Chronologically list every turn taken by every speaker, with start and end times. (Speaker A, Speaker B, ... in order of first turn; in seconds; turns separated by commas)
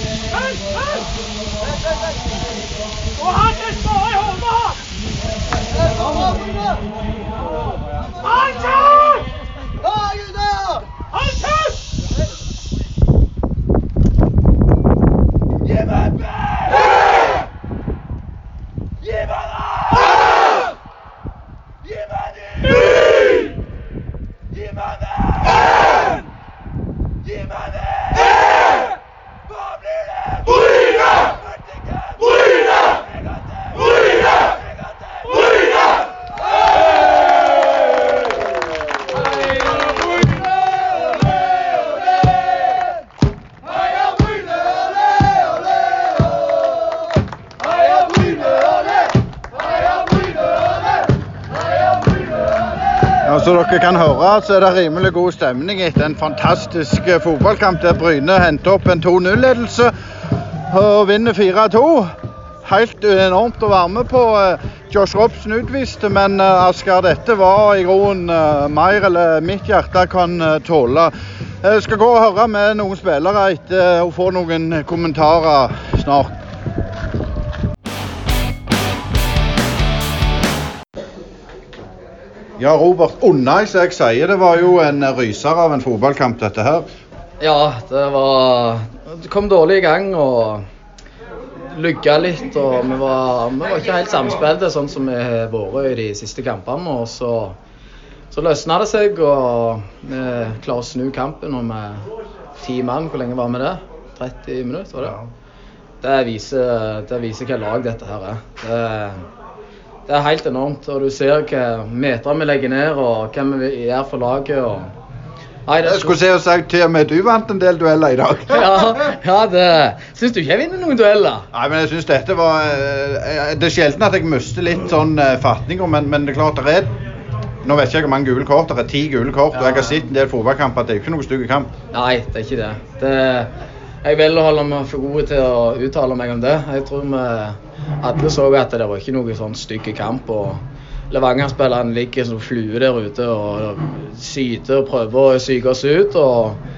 Speaker A: 3.4-4.7, Speaker A: 8.2-9.2, Speaker B: 53.2-59.9, Speaker B: 60.7-62.1, Speaker B: 62.6-76.3, Speaker B: 82.6-86.9, Speaker A: 87.4-90.6, Speaker A: 91.7-97.6, Speaker A: 98.3-102.1, Speaker A: 102.6-105.2, Speaker A: 106.0-109.2, Speaker A: 110.1-114.9, Speaker A: 115.7-116.2, Speaker B: 115.8-119.0, Speaker A: 118.5-121.5, Speaker B: 121.5-126.9, Speaker B: 127.6-131.7, Speaker A: 131.9-133.5, Speaker A: 134.0-146.6